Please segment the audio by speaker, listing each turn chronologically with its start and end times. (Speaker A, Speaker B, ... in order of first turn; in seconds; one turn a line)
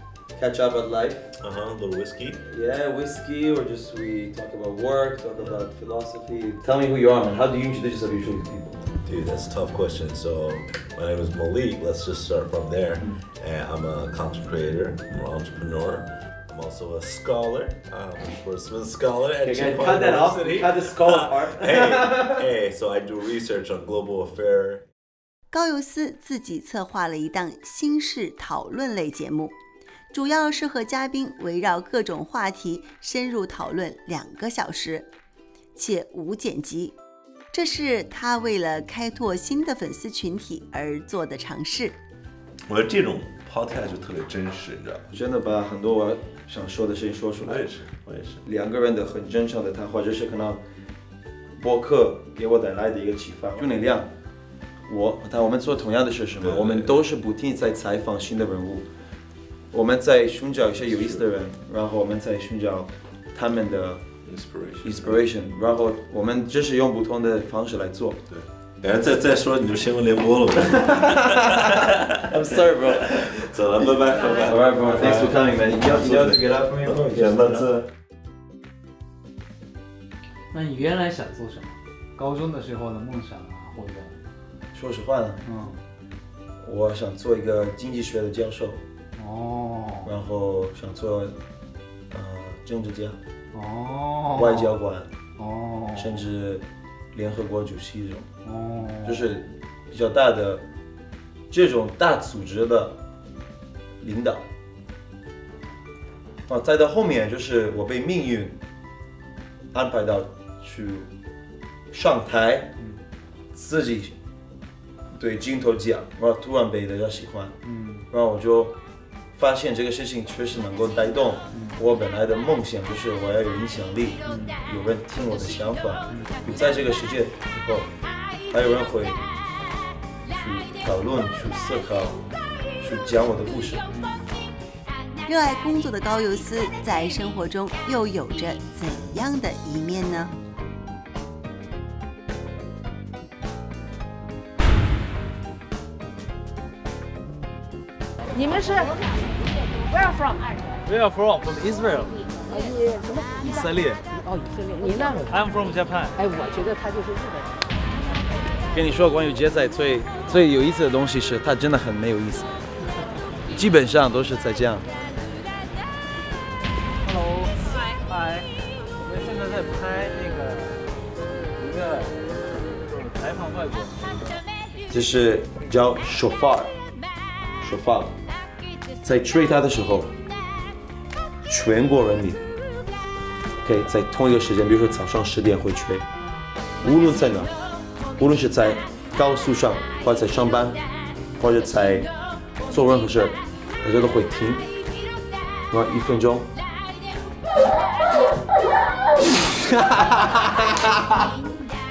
Speaker A: 0.3-1.3
Speaker B: 1.4-2.4
Speaker A: 2.4-8.8
Speaker B: 9.0-24.8
Speaker A: 19.4-22.4
Speaker C: 25.5-29.6
Speaker C: 30.1-35.1
Speaker C: 35.8-36.9
Speaker C: 37.5-42.0
Speaker B: 42.7-45.1
Speaker A: 45.1-47.7
Speaker B: 47.4-48.4
Speaker A: 48.4-50.6
Speaker A: 51.6-54.1
Speaker A: 54.9-58.9
Speaker B: 56.4-57.0
Speaker A: 59.7-64.0
Speaker B: 60.7-61.3
Speaker B: 64.2-65.3
Speaker A: 64.8-68.2
Speaker B: 68.3-77.8
Speaker A: 71.0-71.7
Speaker A: 72.3-77.7
Speaker D: 80.5-84.1
Speaker A: 84.7-85.4
Speaker D: 85.4-85.8
Speaker A: 86.6-88.8
Speaker D: 89.2-90.1
Speaker A: 90.0-91.4
Speaker A: 92.1-93.2
Speaker D: 93.5-94.7
Speaker A: 94.3-95.1
Speaker D: 95.4-96.2
Speaker A: 96.0-98.3
Speaker D: 98.4-99.2
Speaker A: 99.0-100.6
Speaker A: 101.5-103.0
Speaker A: 104.0-104.5
Speaker A: 106.5-108.6
Speaker A: 109.7-111.1
Speaker A: 111.9-112.7
Speaker D: 112.8-113.0
Speaker A: 113.5-114.1
Speaker A: 115.1-117.6
Speaker D: 117.6-118.1
Speaker A: 118.1-118.8
Speaker A: 119.3-127.9
Speaker D: 121.5-121.8
Speaker D: 124.2-124.5
Speaker A: 128.5-129.2
Speaker A: 130.3-132.2
Speaker A: 132.8-133.8
Speaker D: 133.9-134.2
Speaker C: 135.2-140.3
Speaker E: 148.4-148.9
Speaker E: 149.9-150.6
Speaker D: 150.8-152.1
Speaker E: 152.5-153.3
Speaker A: 153.4-154.0
Speaker E: 154.2-155.3
Speaker D: 155.3-156.2
Speaker E: 156.2-157.5
Speaker A: 158.7-162.5
Speaker A: 163.5-164.9
Speaker D: 167.0-174.4
Speaker A: 174.9-176.7
Speaker A: 177.6-178.2
Speaker A: 179.0-180.2
Speaker A: 181.4-182.4
Speaker A: 183.6-186.1
Speaker A: 186.8-187.5
Speaker A: 188.2-190.8
Speaker A: 191.4-192.1
Speaker A: 192.7-194.7
Speaker A: 195.7-196.5
Speaker A: 199.6-201.2